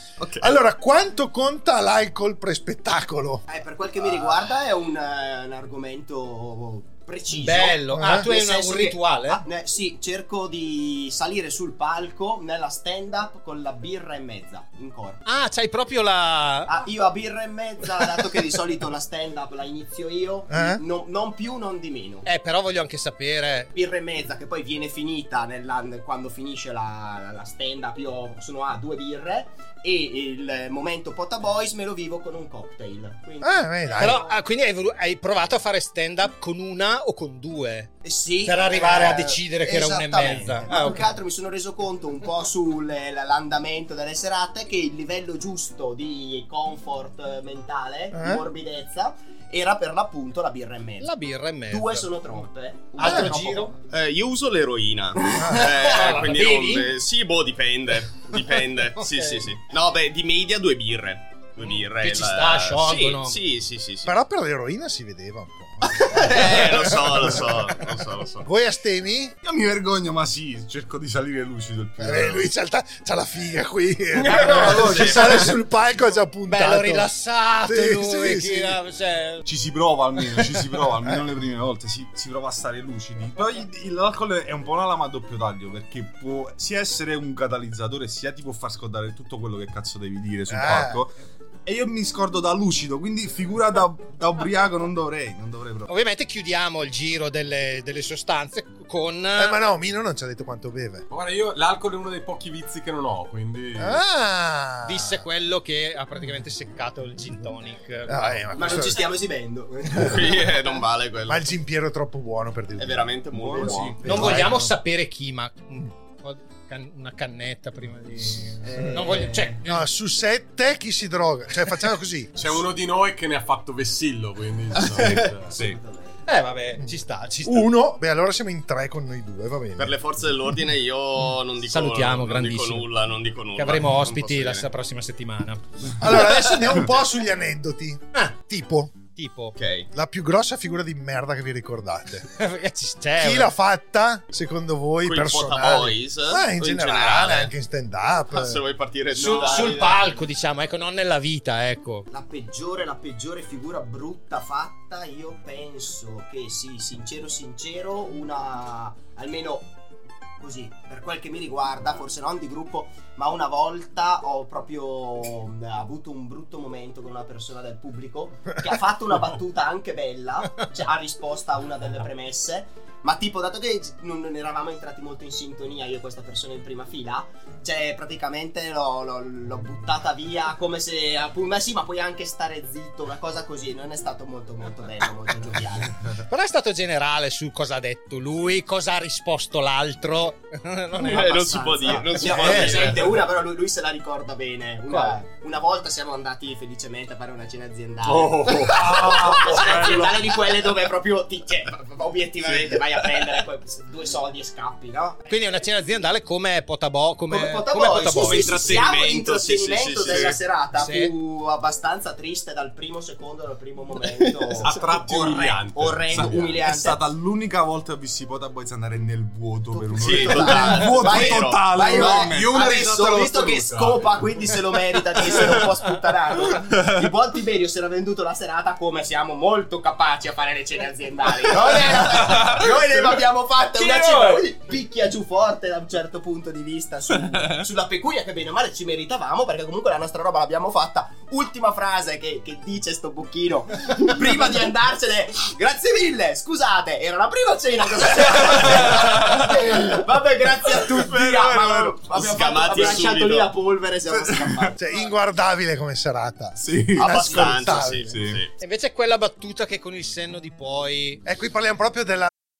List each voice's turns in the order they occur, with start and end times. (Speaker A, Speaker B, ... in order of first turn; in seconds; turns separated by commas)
Speaker A: 0.2-0.6, Speaker B: 0.4-3.4, Speaker C: 3.5-15.2, Speaker D: 7.3-9.4, Speaker B: 7.9-8.2, Speaker D: 15.2-16.8, Speaker C: 16.6-22.2, Speaker B: 20.5-20.8, Speaker D: 22.2-23.7, Speaker C: 23.7-34.4, Speaker B: 33.4-34.2, Speaker D: 34.0-37.9, Speaker C: 38.0-51.1, Speaker D: 38.4-41.1, Speaker B: 48.1-48.4, Speaker D: 51.0-52.1, Speaker C: 51.7-53.7, Speaker D: 53.0-53.7, Speaker B: 53.0-53.3, Speaker A: 53.9-64.1, Speaker B: 55.4-55.7, Speaker D: 55.4-56.9, Speaker D: 59.0-59.5, Speaker D: 61.6-63.4, Speaker B: 64.0-67.8, Speaker A: 65.9-68.5, Speaker B: 68.4-69.3, Speaker E: 69.4-72.5, Speaker B: 72.0-77.1, Speaker E: 74.2-75.5, Speaker A: 74.2-75.3, Speaker D: 76.5-79.5, Speaker B: 77.6-78.8, Speaker E: 79.5-91.1, Speaker B: 90.5-91.0, Speaker E: 91.7-95.9, Speaker D: 95.9-99.6, Speaker B: 99.3-101.0, Speaker F: 101.1-104.0, Speaker B: 103.8-105.2, Speaker D: 104.8-108.3, Speaker B: 108.0-109.0, Speaker C: 108.5-110.5, Speaker A: 110.0-111.5, Speaker B: 111.3-113.2, Speaker A: 112.8-114.0, Speaker E: 113.3-114.6, Speaker D: 114.0-119.9, Speaker B: 114.1-114.7, Speaker C: 118.6-119.5, Speaker B: 119.6-122.3, Speaker F: 122.3-125.7, Speaker C: 125.1-126.2, Speaker E: 125.5-125.8, Speaker D: 126.2-127.7, Speaker B: 127.4-129.9, Speaker A: 129.8-134.7, Speaker D: 131.6-132.9, Speaker D: 133.5-135.6, Speaker B: 136.0-138.9, Speaker D: 139.1-139.6, Speaker A: 139.6-139.9, Speaker B: 139.9-142.2, Speaker D: 142.3-143.5, Speaker B: 143.2-148.6, Speaker A: 145.0-147.5, Speaker A: 148.3-150.1, Speaker D: 149.1-152.1, Speaker C: 149.2-149.9, Speaker C: 152.1-159.7, Speaker C: 160.4-186.1, Speaker D: 186.3-192.8, Speaker C: 191.0-205.3, Speaker A: 191.0-193.2, Speaker B: 192.4-192.8, Speaker D: 194.9-195.2, Speaker F: 198.0-200.2, Speaker E: 198.7-200.1, Speaker D: 205.3-208.8, Speaker C: 207.3-217.1, Speaker A: 208.1-210.4, Speaker D: 210.7-211.1, Speaker F: 214.6-216.6, Speaker E: 216.1-223.2, Speaker C: 219.7-254.8, Speaker A: 220.0-222.3, Speaker F: 221.9-224.2, Speaker E: 231.7-232.5, Speaker D: 233.9-234.4, Speaker E: 251.1-252.0, Speaker A: 251.5-253.5, Speaker E: 254.2-254.7, Speaker B: 254.8-258.1, Speaker E: 256.6-258.4, Speaker A: 256.9-258.5, Speaker D: 258.6-261.2, Speaker B: 261.2-262.3